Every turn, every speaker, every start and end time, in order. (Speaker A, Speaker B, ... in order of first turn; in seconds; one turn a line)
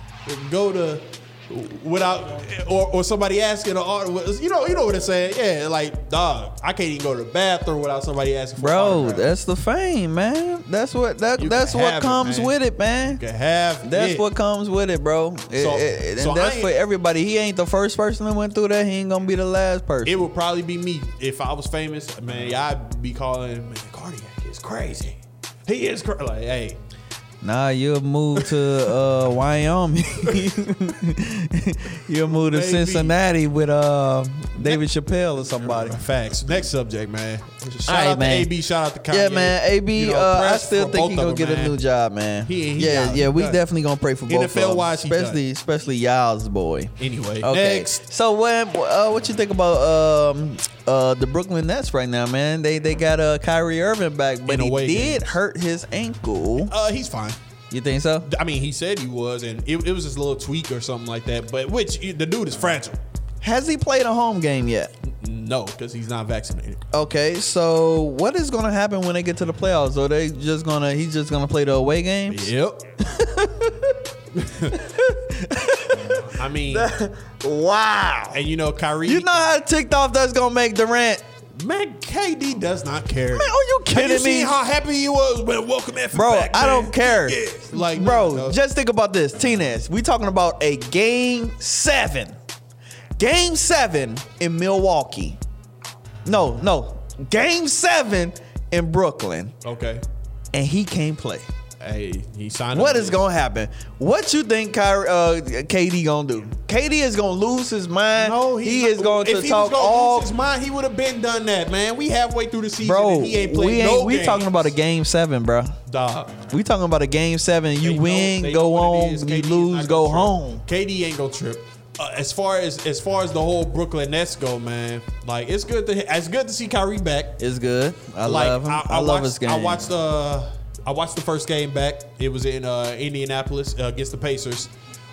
Speaker A: 0.2-9.3
Speaker B: 8.6-13.2
Speaker A: 11.4-12.6
Speaker A: 13.1-14.2
Speaker B: 13.8-20.3
Speaker A: 15.5-16.7
Speaker A: 20.0-26.8
Speaker B: 27.4-36.0
Speaker A: 32.2-33.1
Speaker A: 34.6-34.8
Speaker A: 35.6-41.8
Speaker B: 37.9-38.5
Speaker B: 39.1-56.7
Speaker A: 42.5-43.6
Speaker A: 44.3-45.4
Speaker A: 47.0-48.0
Speaker A: 54.5-55.3
Speaker A: 56.6-57.4
Speaker B: 57.7-58.3
Speaker A: 58.2-63.0
Speaker B: 63.4-64.9
Speaker A: 65.1-66.8
Speaker B: 66.9-74.0
Speaker A: 72.3-72.8
Speaker A: 74.3-74.8
Speaker B: 74.7-78.4
Speaker A: 76.3-76.9
Speaker A: 78.3-79.4
Speaker B: 79.0-81.2
Speaker A: 81.5-88.6
Speaker B: 83.3-84.5
Speaker B: 86.1-92.3
Speaker B: 93.2-95.4
Speaker B: 96.2-99.5
Speaker A: 99.6-100.0
Speaker B: 100.5-101.5
Speaker A: 101.8-103.2
Speaker B: 102.7-110.3
Speaker A: 108.2-114.7
Speaker B: 112.8-115.8
Speaker A: 115.9-116.4
Speaker B: 116.5-120.6
Speaker A: 117.8-127.4
Speaker B: 127.4-129.9
Speaker A: 128.2-134.7